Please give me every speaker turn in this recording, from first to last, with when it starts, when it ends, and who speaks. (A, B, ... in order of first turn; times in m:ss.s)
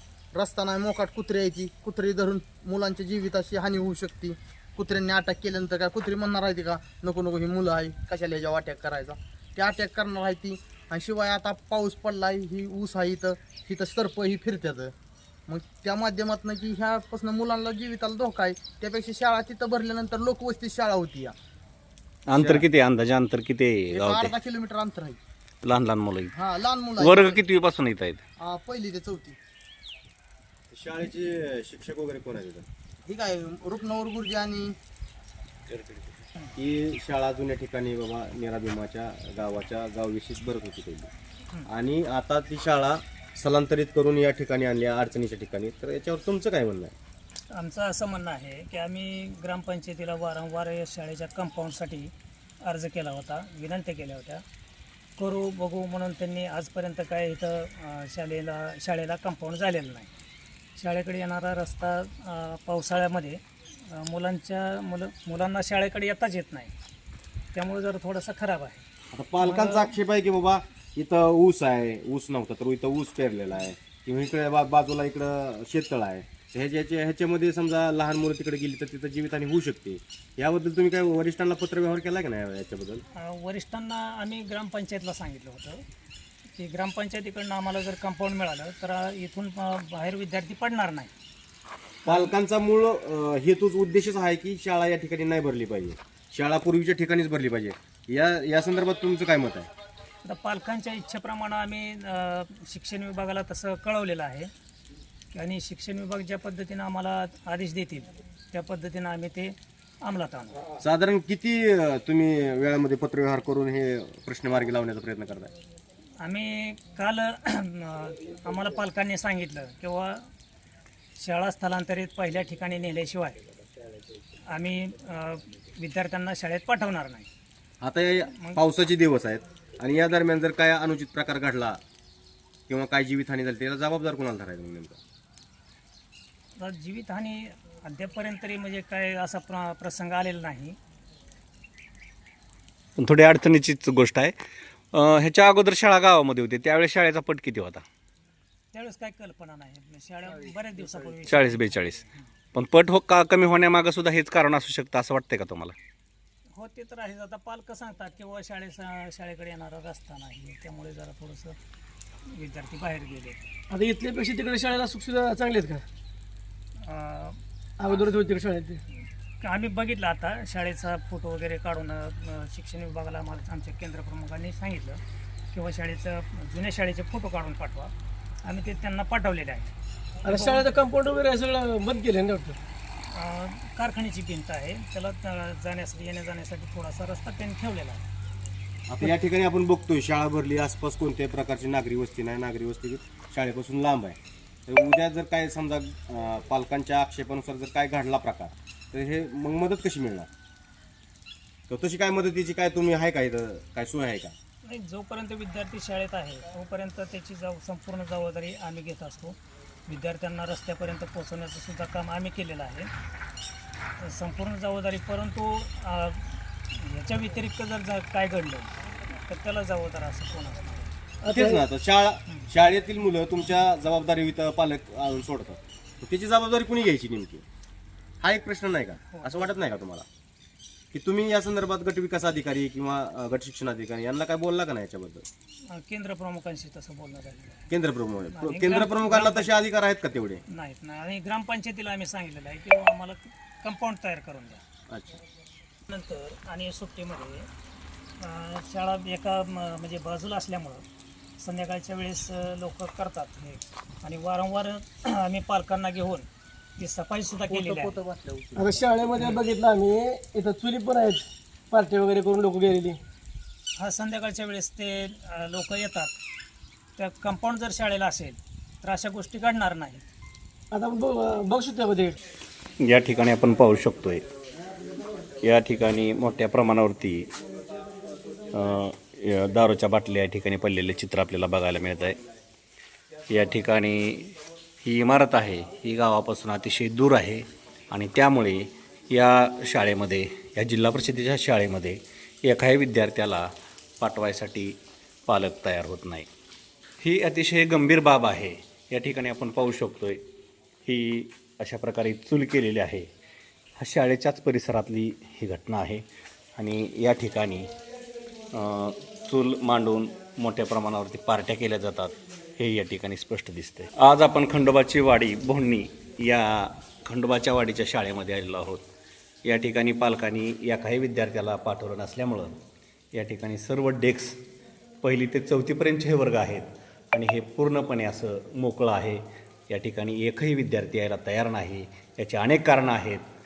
0:00.3-0:14.9 A
0:15.5-0:21.3 A
0:22.3-0:24.3 B
0:23.9-0:25.2 A
0:25.6-0:26.4 B
0:26.3-0:27.4 A
0:27.0-0:28.2 B
0:28.4-0:29.4 A
0:30.7-0:32.7 C
0:33.1-0:34.8 A
0:35.7-0:36.1 B
0:36.6-0:41.1 C
0:41.7-0:46.9 C
0:47.5-0:54.4 D
0:55.2-1:00.1 D
1:00.8-1:06.7 D
1:07.5-1:08.8 D
1:09.1-1:23.0 C
1:09.4-1:09.9 D
1:23.2-1:25.8 D
1:26.6-1:31.1 D
1:32.0-1:39.7 C
1:32.1-1:32.3 D
1:40.2-1:44.5 D
1:45.3-1:50.6 D
1:50.8-1:55.5 C
1:56.2-2:00.3 D
2:01.2-2:03.4 D
2:04.5-2:07.3 D
2:07.8-2:11.8 C
2:12.7-2:15.0 C
2:16.6-2:20.8 D
2:23.0-2:24.3 B
2:24.9-2:27.8 B
2:28.7-2:32.2 D
2:31.3-2:32.0 B
2:32.5-2:35.8 B
2:36.6-2:41.6 D
2:42.3-2:43.4 D
2:43.7-2:45.8 E
2:46.8-2:47.4 D
2:47.8-2:48.8 E
2:49.4-2:57.9 D
2:58.4-2:59.7 D
3:00.3-3:02.6 E
3:00.3-3:00.7 D
3:03.1-3:08.1 D
3:08.9-3:20.3 C
3:21.7-3:24.4 C
3:24.6-3:32.9 D
3:34.0-3:40.9 D
3:41.2-3:41.6 E
3:41.3-3:47.4 C
3:48.2-3:50.1 C
3:49.1-3:49.5 D
3:50.9-3:55.2 C
3:55.7-3:57.7 D
3:57.7-4:00.4 C
3:58.3-3:59.5 D
4:00.5-4:04.6 D
4:04.9-4:05.2 C
4:05.9-4:07.5 D
4:08.2-4:10.8 D
4:11.4-4:18.0 D
4:17.5-4:18.8 A
4:18.6-4:23.0 E
4:23.8-4:26.1 D
4:27.0-4:30.0 D
4:30.7-4:32.2 E
4:32.8-4:34.2 B
4:35.4-4:37.3 B
4:38.5-4:42.2 B
4:43.3-4:54.8 B
4:55.3-4:56.3 B
4:57.0-5:00.2 B
5:00.9-5:03.1 B
5:03.8-5:06.0 B
5:06.6-5:07.7 B
5:08.5-5:18.8 B
5:19.4-5:22.6 B
5:23.1-5:24.4 B
5:25.0-5:33.2 B